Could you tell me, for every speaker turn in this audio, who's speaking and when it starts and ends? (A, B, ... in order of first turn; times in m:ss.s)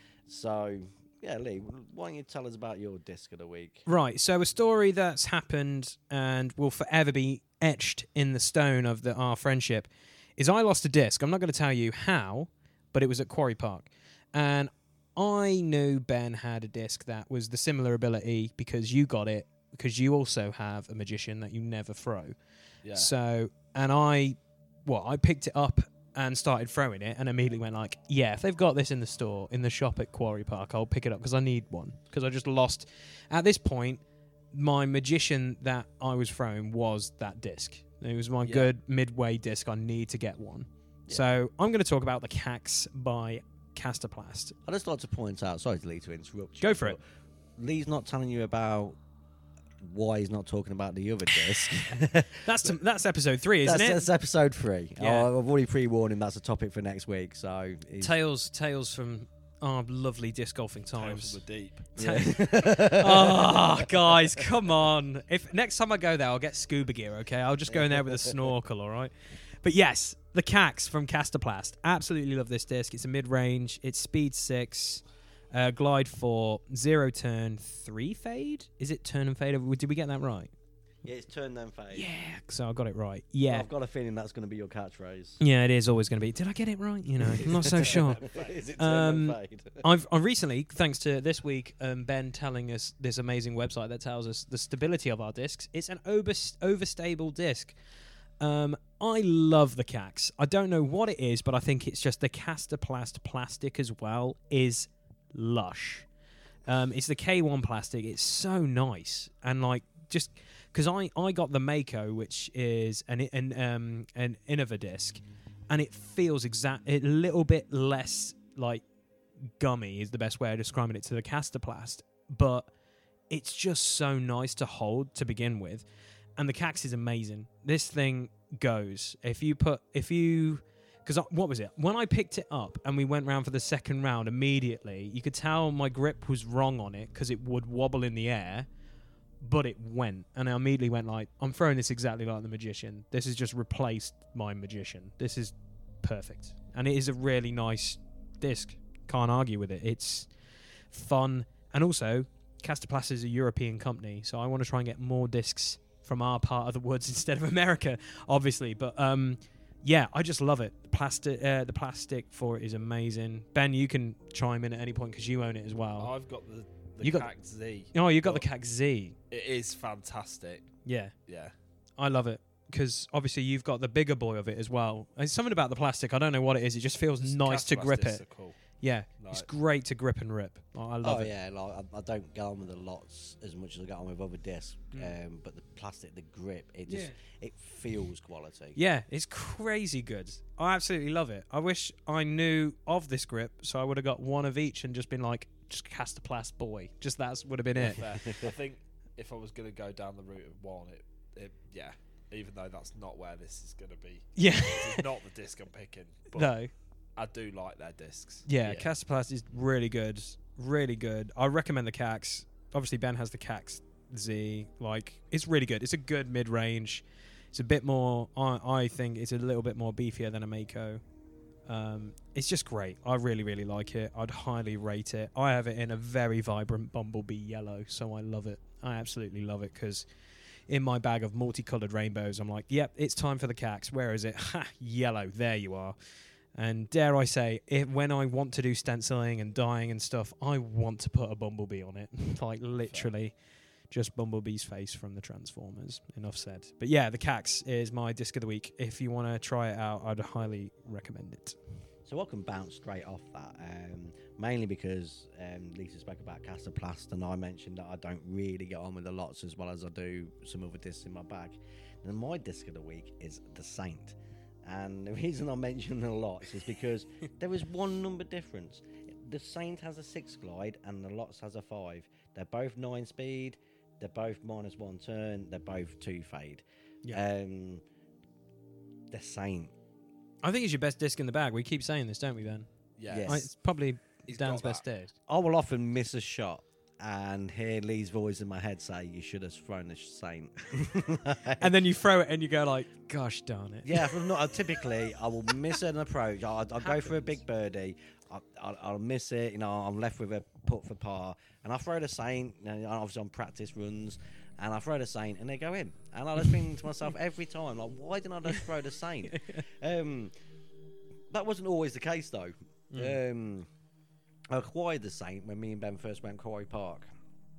0:00.3-0:03.9 A
0:03.9-0:22.4 B
0:22.8-0:23.1 C
0:22.9-0:34.0 B
0:34.5-0:44.6 B
0:38.4-0:38.7 A
0:44.6-0:47.0 A
0:46.6-0:47.0 B
0:47.6-0:49.0 A
0:49.8-0:52.8 A
0:52.4-0:54.1 B
0:53.6-0:58.2 A
0:55.0-0:55.3 B
0:58.0-1:01.4 B
1:01.0-1:01.9 C
1:02.0-1:04.4 A
1:02.0-1:20.5 B
1:07.7-1:08.5 A
1:21.0-1:22.1 A
1:21.9-1:23.7 B
1:23.4-1:25.4 A
1:25.4-1:28.2 B
1:27.2-1:29.9 A
1:27.6-1:28.6 C
1:28.8-1:37.8 B
1:38.4-1:46.1 B
1:46.7-1:58.8 B
1:59.6-2:02.7 B
2:03.3-2:05.8 B
2:06.4-2:18.7 B
2:19.4-2:30.3 B
2:30.9-2:46.1 B
2:46.0-2:48.5 C
2:47.0-2:47.3 B
2:47.9-2:49.2 B
2:49.3-2:50.7 C
2:50.8-2:51.1 B
2:51.3-2:51.5 C
2:52.0-2:58.2 B
2:57.2-2:58.6 C
2:58.8-3:01.3 B
2:59.2-2:59.5 C
3:01.0-3:08.8 A
3:06.9-3:07.2 B
3:08.8-3:18.4 B
3:17.8-3:26.6 C
3:24.4-3:25.0 B
3:26.3-3:26.7 B
3:27.2-3:28.9 C
3:28.5-3:41.0 B
3:41.7-3:50.1 B
3:50.7-3:56.0 B
3:56.6-4:03.4 B
4:02.8-4:03.1 C
4:03.9-4:11.6 B
4:12.1-4:37.8 A
4:39.1-4:39.7 A
4:40.4-4:42.7 B
4:43.0-4:43.5 C
4:43.1-4:43.5 A
4:43.3-4:45.1 B
4:44.3-4:44.8 C
4:45.3-4:51.7 A
4:51.6-4:54.5 B
4:53.8-5:10.3 A
4:56.8-4:57.4 B
5:09.3-5:09.6 B
5:11.3-5:13.7 A
5:12.9-5:13.2 B
5:14.5-5:17.1 A